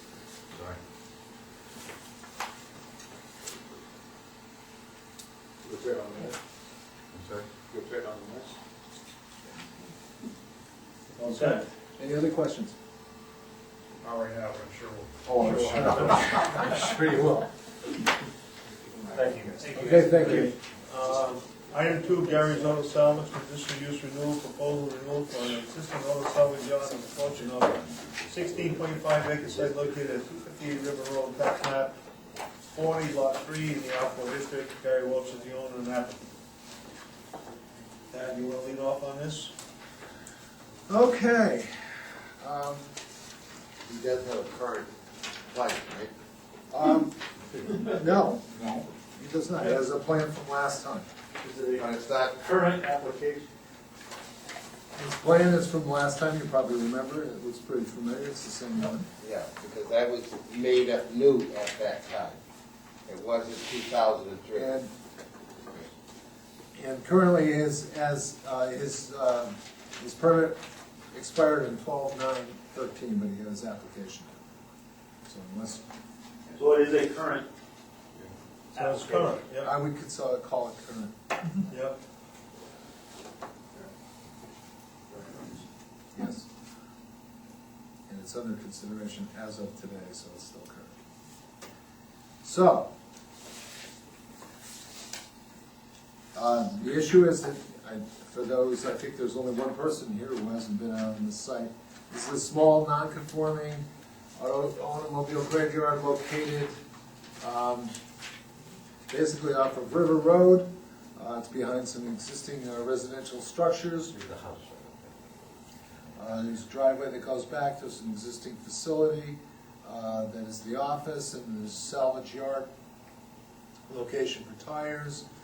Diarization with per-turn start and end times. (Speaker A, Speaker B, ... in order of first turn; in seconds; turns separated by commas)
Speaker A: 0.5-0.8, Speaker B: 5.6-6.3, Speaker A: 7.1-7.5, Speaker B: 7.7-8.5, Speaker C: 11.2-12.7, Speaker B: 11.2-11.6, Speaker D: 11.3-11.6, Speaker E: 14.0-16.9, Speaker C: 15.2-17.5, Speaker D: 19.1-32.0, Speaker E: 19.2-20.5, Speaker C: 19.7-20.5, Speaker D: 32.6-36.2, Speaker D: 38.1-39.5, Speaker C: 40.9-42.9, Speaker F: 43.8-44.9, Speaker F: 45.5-46.1, Speaker C: 46.7-51.1, Speaker A: 48.6-48.8, Speaker B: 51.4-53.5, Speaker F: 51.8-52.4, Speaker C: 55.0-59.1, Speaker F: 59.2-62.4, Speaker F: 63.1-64.7, Speaker C: 64.5-64.9, Speaker C: 66.7-70.6, Speaker C: 71.1-74.5, Speaker C: 75.3-75.8, Speaker B: 76.5-77.5, Speaker B: 78.7-79.4, Speaker D: 78.7-79.7, Speaker C: 79.6-81.2, Speaker D: 81.7-82.0, Speaker B: 85.1-85.6, Speaker C: 86.1-86.5, Speaker C: 88.1-91.0, Speaker C: 92.4-92.9, Speaker C: 96.3-106.8, Speaker C: 107.4-107.9, Speaker C: 109.1-114.2, Speaker A: 114.1-115.4, Speaker C: 116.2-122.7, Speaker C: 123.9-125.2